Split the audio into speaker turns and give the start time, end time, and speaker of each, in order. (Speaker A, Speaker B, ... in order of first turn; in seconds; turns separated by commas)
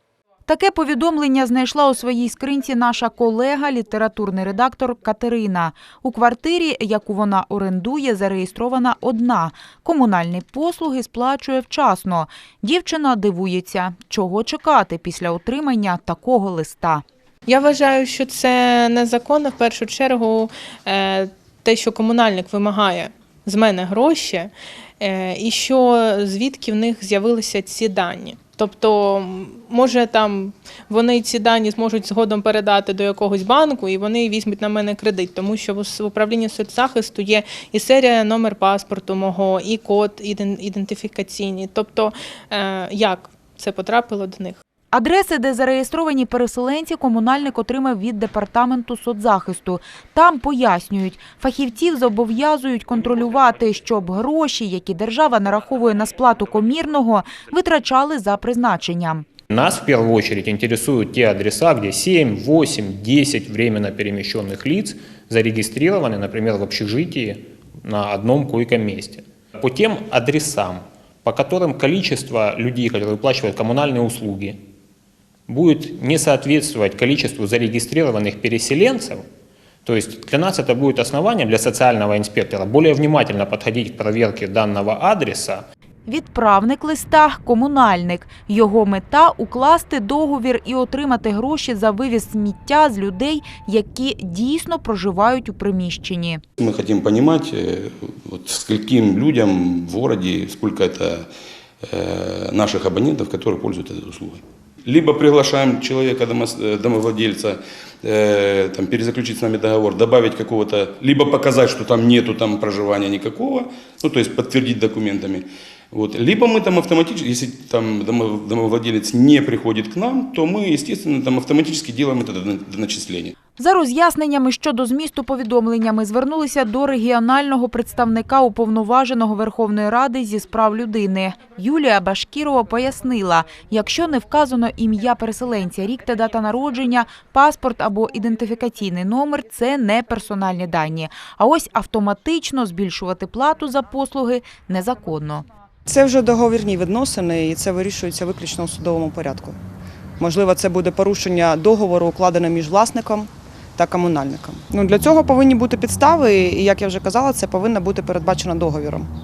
Speaker A: 0.5-17.0, Speaker B: 17.5-44.6, Speaker A: 44.9-59.2, Speaker C: 59.5-74.6, Speaker C: 75.5-79.2, Speaker C: 79.8-85.7, Speaker A: 86.0-96.4, Speaker D: 96.6-101.2, Speaker D: 101.8-123.3, Speaker A: 123.6-145.4, Speaker E: 145.9-149.6, Speaker E: 150.2-159.1